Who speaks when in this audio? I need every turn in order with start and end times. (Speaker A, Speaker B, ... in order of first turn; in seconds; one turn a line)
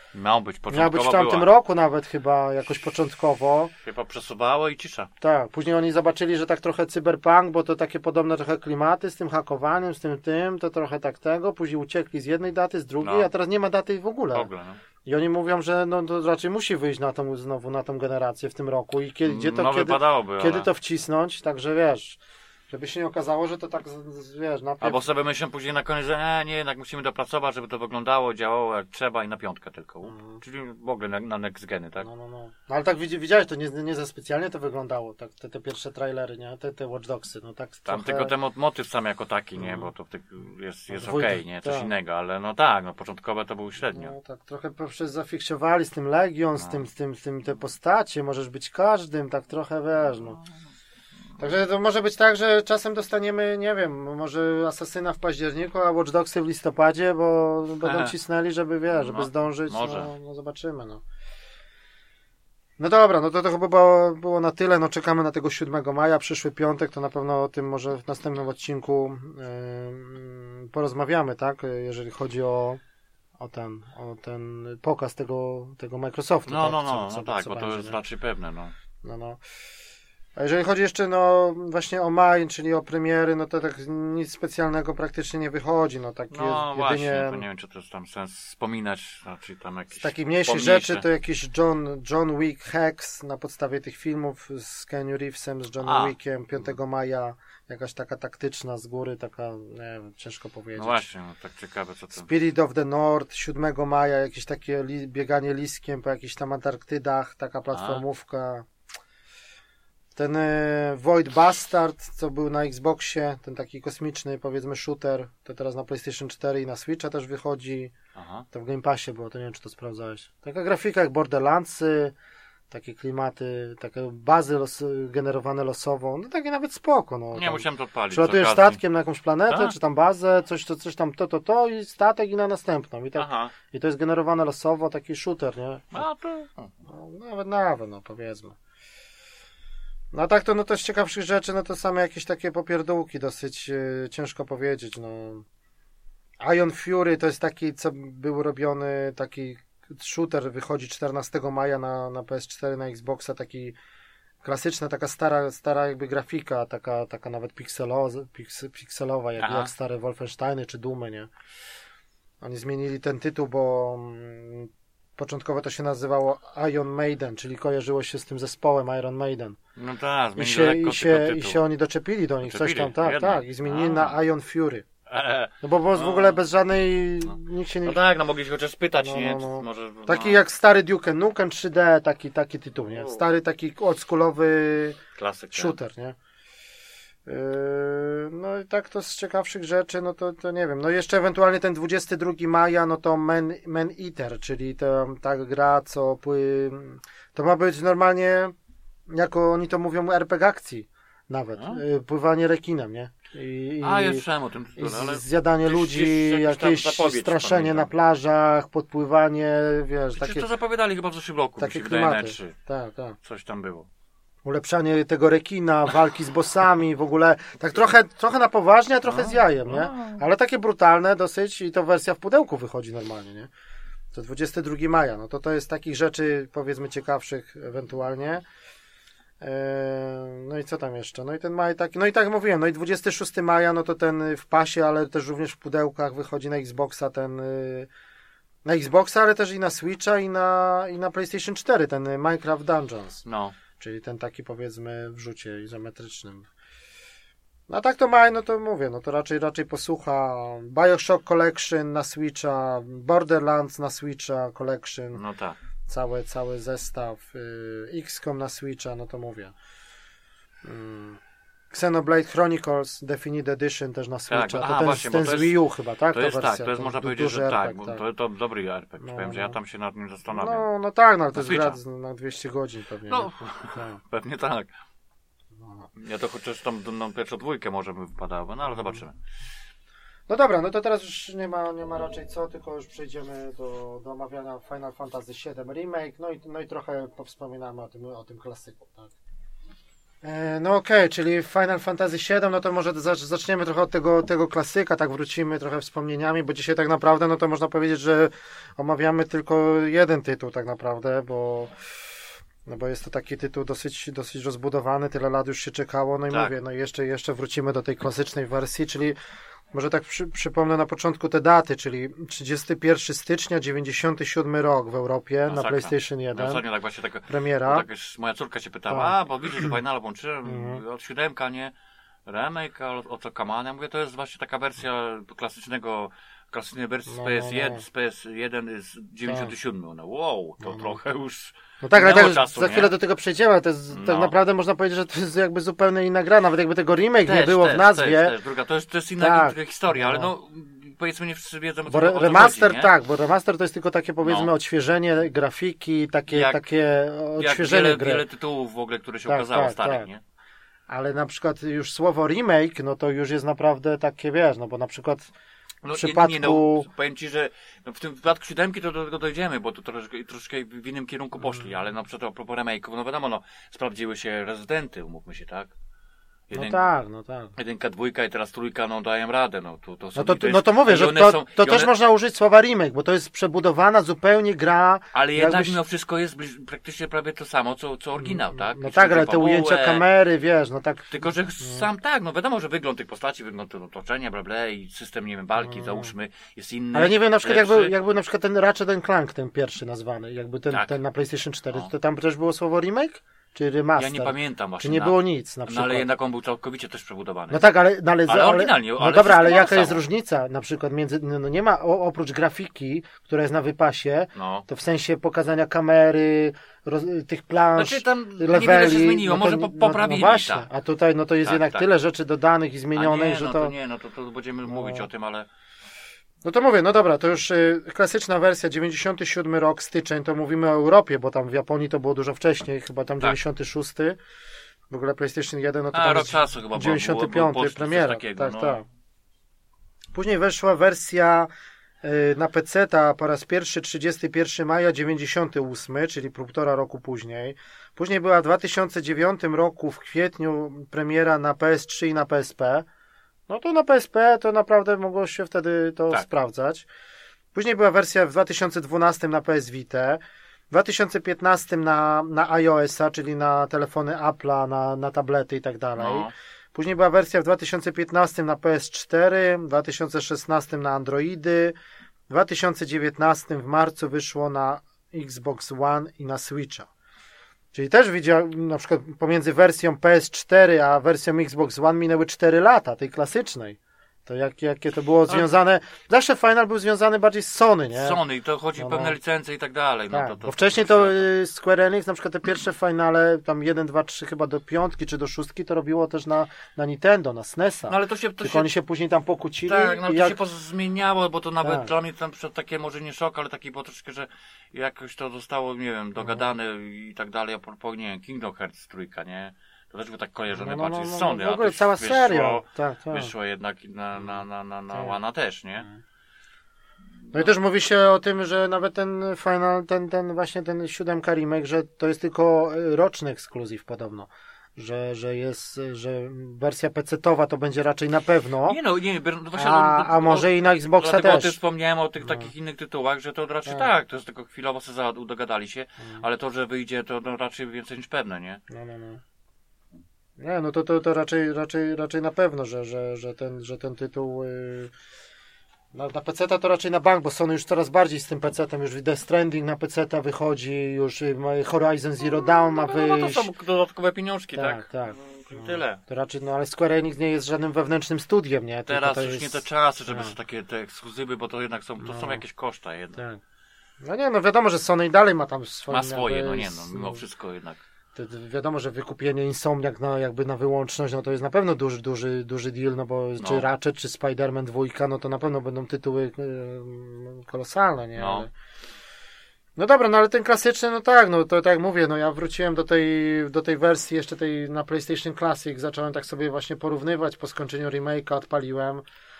Speaker A: 0.1-1.5
Speaker B: 0.7-3.7
Speaker A: 3.8-5.1
Speaker B: 5.2-14.5
Speaker A: 13.0-13.3
Speaker A: 14.3-14.8
Speaker B: 15.0-22.2
Speaker A: 19.2-20.7
Speaker B: 22.7-25.0
Speaker A: 24.8-32.1
Speaker B: 30.0-30.4
Speaker B: 32.0-38.3
Speaker A: 37.9-44.1
Speaker B: 39.6-39.9
Speaker B: 40.9-41.9
Speaker B: 43.9-50.4
Speaker B: 51.4-61.0
Speaker A: 57.8-58.1
Speaker A: 58.9-60.1
Speaker B: 62.8-72.8
Speaker B: 73.4-78.0
Speaker A: 76.5-78.7
Speaker B: 79.0-79.4
Speaker B: 80.3-87.4
Speaker A: 86.3-91.0
Speaker B: 90.0-101.0
Speaker A: 95.8-96.1
Speaker A: 100.8-102.3
Speaker B: 102.1-108.7
Speaker A: 107.7-108.0
Speaker B: 110.2-117.9
Speaker A: 118.1-118.5
Speaker B: 118.5-122.1
Speaker B: 122.7-136.0
Speaker A: 127.3-128.8
Speaker A: 129.5-129.7
Speaker A: 133.2-133.5
Speaker A: 135.9-136.7
Speaker B: 136.9-138.6
Speaker B: 140.1-145.4
Speaker B: 146.4-153.7
Speaker B: 154.4-161.3
Speaker A: 159.4-159.7
Speaker B: 162.4-169.6
Speaker A: 169.8-171.6
Speaker B: 170.3-174.8
Speaker A: 172.4-174.2
Speaker A: 175.1-176.4
Speaker B: 175.6-178.0
Speaker A: 177.3-180.4
Speaker B: 179.0-185.0
Speaker A: 182.8-183.2
Speaker A: 185.1-185.8
Speaker B: 185.5-186.2
Speaker B: 187.2-198.5
Speaker B: 199.1-204.2
Speaker A: 203.8-207.9
Speaker B: 204.8-210.5
Speaker A: 210.1-212.6
Speaker B: 211.6-213.2
Speaker A: 213.2-213.9
Speaker B: 214.4-223.5
Speaker A: 219.0-220.2
Speaker B: 224.1-228.4
Speaker B: 229.4-237.9
Speaker B: 238.6-243.2
Speaker A: 243.2-243.6
Speaker B: 243.8-246.5
Speaker B: 247.7-255.2
Speaker A: 255.1-255.6
Speaker B: 255.9-259.5
Speaker B: 260.6-261.2
Speaker B: 261.7-268.0
Speaker A: 264.3-265.6
Speaker A: 266.1-270.6
Speaker B: 269.0-269.6
Speaker B: 270.3-274.0
Speaker A: 271.3-271.8
Speaker A: 273.1-274.7
Speaker A: 275.9-279.1
Speaker B: 280.3-289.1
Speaker B: 290.2-301.7
Speaker B: 302.6-309.2
Speaker B: 309.7-316.6
Speaker A: 315.5-321.7
Speaker B: 317.3-317.8
Speaker B: 318.9-319.7
Speaker B: 320.4-320.8
Speaker A: 322.2-332.9
Speaker B: 327.1-327.8
Speaker B: 329.3-329.5
Speaker B: 330.6-330.9
Speaker B: 331.8-338.4
Speaker A: 333.9-334.3
Speaker A: 337.2-342.9
Speaker B: 339.2-340.3
Speaker B: 341.9-348.2
Speaker A: 344.2-344.5
Speaker A: 346.3-346.6
Speaker A: 347.4-350.2
Speaker B: 349.3-350.1
Speaker B: 350.9-355.3
Speaker A: 355.8-365.7
Speaker B: 355.9-356.9
Speaker A: 366.5-366.8
Speaker B: 366.5-367.5
Speaker A: 367.6-371.9
Speaker B: 370.1-375.8
Speaker A: 375.1-380.0
Speaker B: 378.2-381.8
Speaker A: 381.1-387.9
Speaker B: 385.6-386.1
Speaker B: 386.9-396.1
Speaker A: 393.9-397.6
Speaker B: 397.5-413.7
Speaker A: 398.2-400.0
Speaker A: 404.3-404.6
Speaker A: 407.8-410.7
Speaker A: 411.4-411.8
Speaker A: 412.9-415.5
Speaker B: 414.7-415.0
Speaker B: 416.4-424.2
Speaker B: 424.9-428.8
Speaker A: 425.9-428.8
Speaker B: 430.1-431.5
Speaker B: 432.0-442.9
Speaker B: 443.5-446.9
Speaker B: 447.5-461.7
Speaker A: 456.0-456.3
Speaker B: 462.3-466.9
Speaker B: 467.7-478.2
Speaker A: 477.9-481.2
Speaker B: 478.8-479.1
Speaker B: 480.1-490.4
Speaker A: 487.9-488.7
Speaker A: 489.7-505.9
Speaker B: 491.6-491.9
Speaker B: 500.5-503.3
Speaker B: 507.3-518.8
Speaker A: 518.7-528.6
Speaker B: 519.5-521.5
Speaker B: 522.2-522.5
Speaker B: 528.7-529.2
Speaker B: 530.4-534.9
Speaker B: 535.9-543.5
Speaker A: 542.3-546.0
Speaker B: 544.5-550.3
Speaker A: 548.9-553.2
Speaker B: 552.0-552.4
Speaker B: 554.0-557.2
Speaker A: 555.9-557.8
Speaker B: 558.1-568.5
Speaker A: 563.4-563.7
Speaker A: 568.1-568.5
Speaker B: 569.8-579.0